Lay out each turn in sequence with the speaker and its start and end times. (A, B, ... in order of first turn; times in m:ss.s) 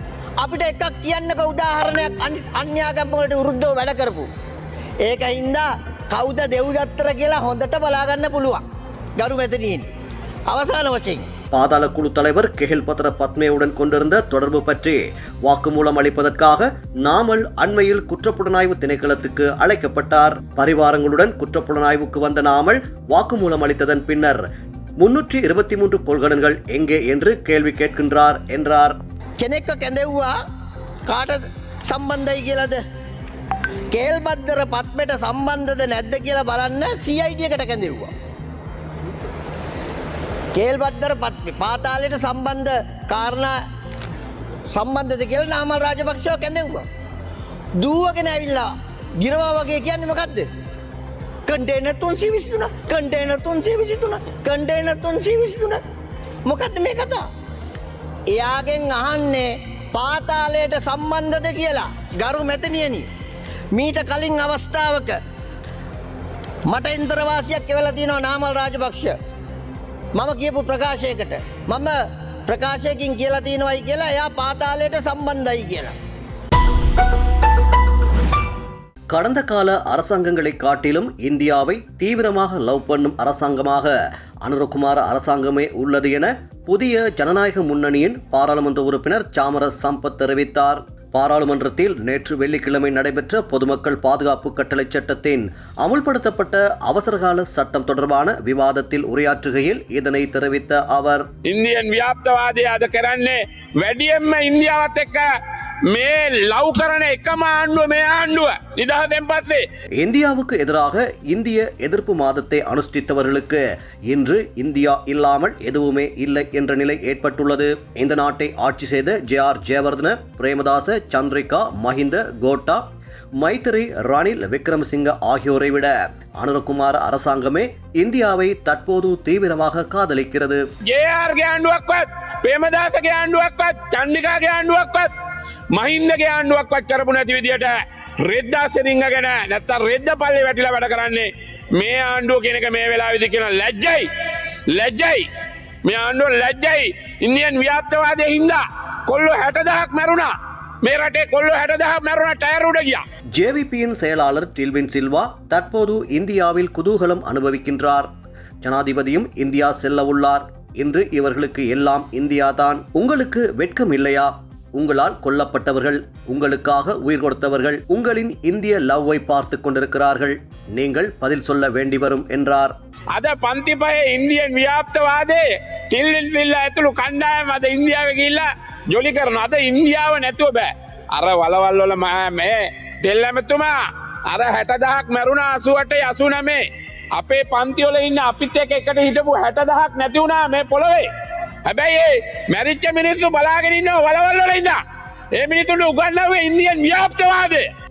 0:00.4-0:04.3 A
0:05.0-0:08.6 A
0:09.2-0:09.8 A
0:10.5-0:11.3 A
0:11.5-0:24.4 B
0:25.0-0:29.0 B
0:29.4-0:30.4 A
0:31.1-0:32.8 A
0:33.9-0:38.1 A
0:40.5-0:43.6 A
0:44.7-0:46.8 A
0:47.8-0:48.7 A
0:49.2-0:50.5 A
0:51.5-0:55.8 A
0:56.4-0:57.2 A
0:58.3-1:03.1 A
1:03.7-1:05.2 A
1:06.7-1:09.1 A
1:10.2-1:11.9 A
1:12.5-1:16.0 A
1:19.1-1:41.2 B
1:41.4-1:45.3 C
1:45.9-1:49.6 C
1:50.0-2:02.8 B
2:03.4-2:10.6 B
2:10.9-2:15.1 C
2:15.7-2:24.1 C
2:24.7-2:25.2 C
2:25.8-2:33.0 C
2:33.3-2:38.1 B
2:38.6-2:52.7 B
2:53.1-3:11.1 C
3:11.6-3:14.8 C
3:15.3-3:17.7 C